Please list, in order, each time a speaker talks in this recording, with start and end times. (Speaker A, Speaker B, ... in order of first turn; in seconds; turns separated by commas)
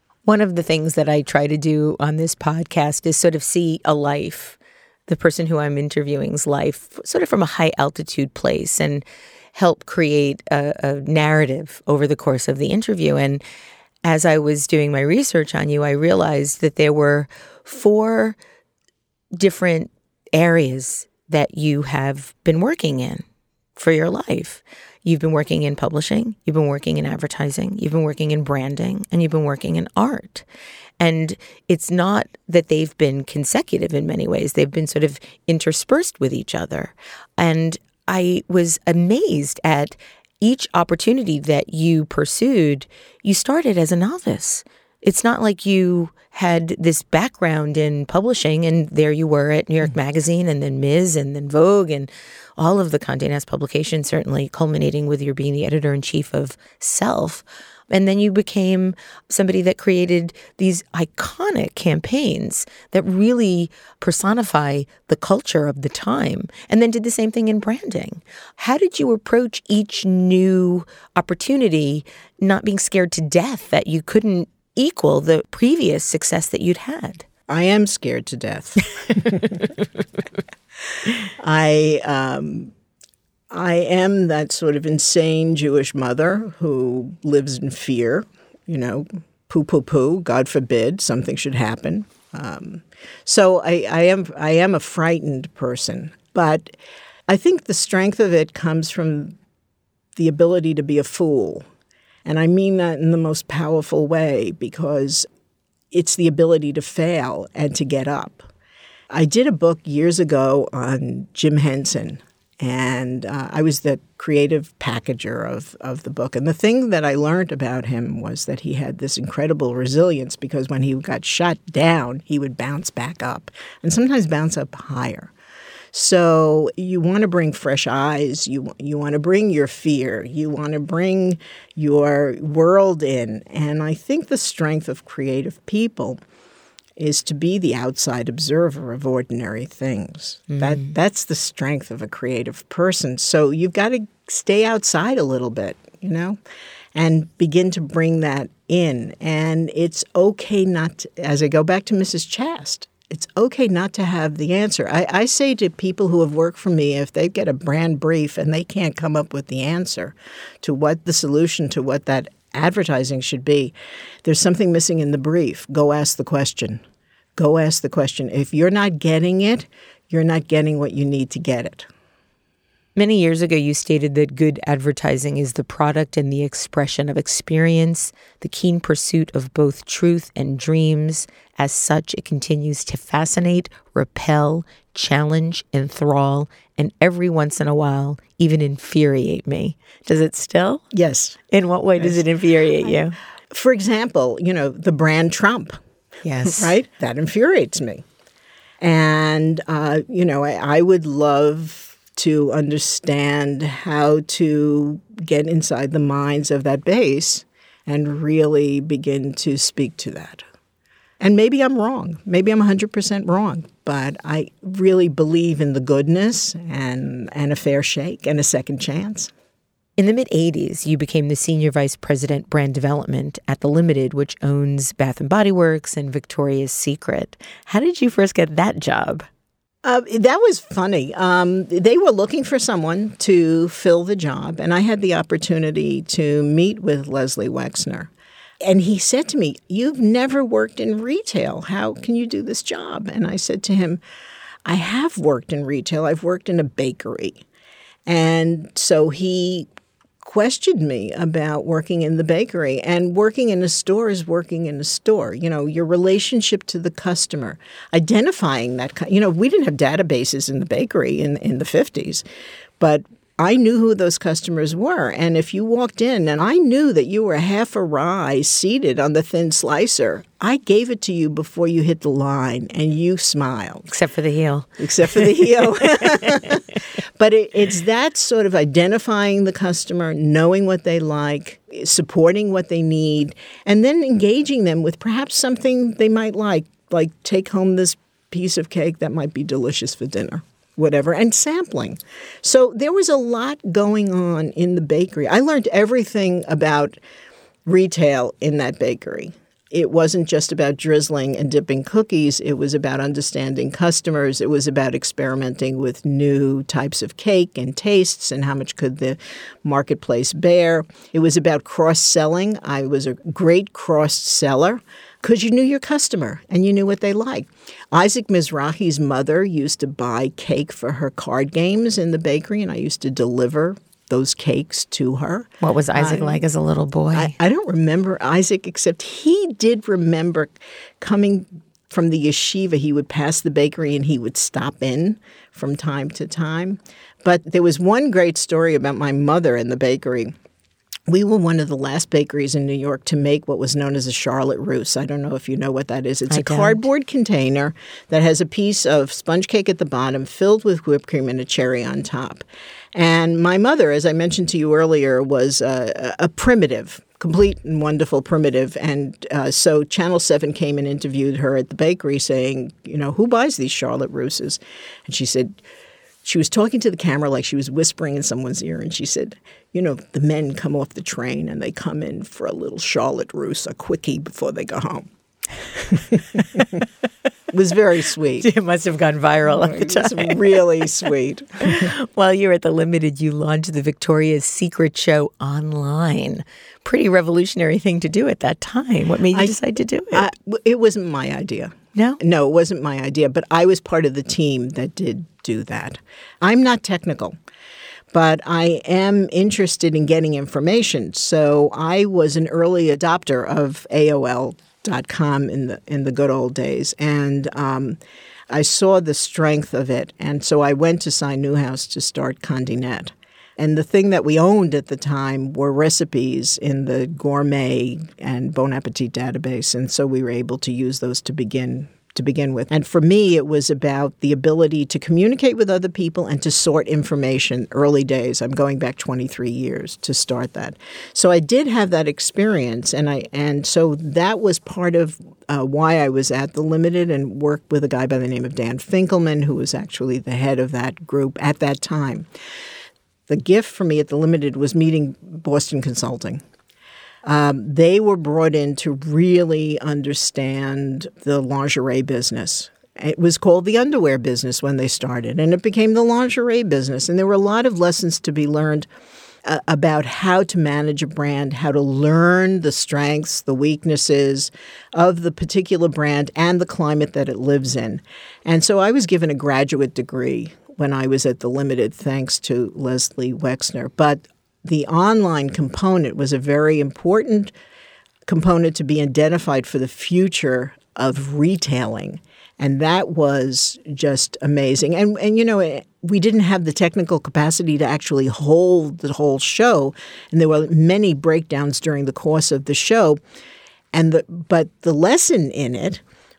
Speaker A: 0.2-13.4, Speaker A: 14.0-18.4, Speaker A: 19.4-23.2, Speaker A: 23.8-30.4, Speaker A: 31.0-77.2, Speaker B: 77.5-79.7, Speaker B: 81.4-82.7, Speaker B: 83.5-96.7, Speaker B: 97.3-99.3, Speaker B: 100.2-101.7, Speaker B: 102.2-105.3, Speaker B: 105.9-108.5, Speaker B: 109.1-125.3, Speaker B: 125.9-136.2, Speaker B: 137.0-146.4, Speaker A: 140.5-140.8, Speaker B: 146.9-166.8, Speaker B: 167.3-171.9, Speaker A: 172.9-190.8, Speaker B: 190.9-191.4, Speaker A: 191.5-193.2, Speaker B: 192.0-192.2, Speaker B: 193.5-195.8, Speaker A: 196.2-196.7, Speaker B: 196.4-198.0, Speaker B: 198.8-210.4, Speaker B: 211.2-219.3, Speaker A: 220.0-229.2, Speaker B: 229.8-238.1, Speaker B: 238.6-244.0, Speaker B: 244.6-247.4, Speaker B: 248.1-249.7, Speaker B: 250.2-262.2, Speaker B: 262.8-273.9, Speaker A: 273.9-275.5, Speaker B: 274.8-297.0, Speaker B: 297.6-326.4, Speaker A: 325.6-327.3, Speaker B: 327.1-340.3, Speaker B: 341.1-365.6, Speaker A: 346.3-346.8, Speaker B: 366.2-375.1, Speaker B: 375.8-376.8, Speaker B: 377.5-378.5, Speaker A: 378.4-380.6, Speaker B: 379.5-381.9, Speaker A: 381.6-390.3, Speaker B: 389.3-389.6, Speaker B: 390.1-397.4, Speaker B: 398.1-408.0, Speaker B: 408.5-442.3, Speaker B: 443.3-446.4, Speaker B: 447.2-458.9, Speaker B: 459.4-477.5, Speaker B: 478.2-493.2, Speaker B: 493.9-496.0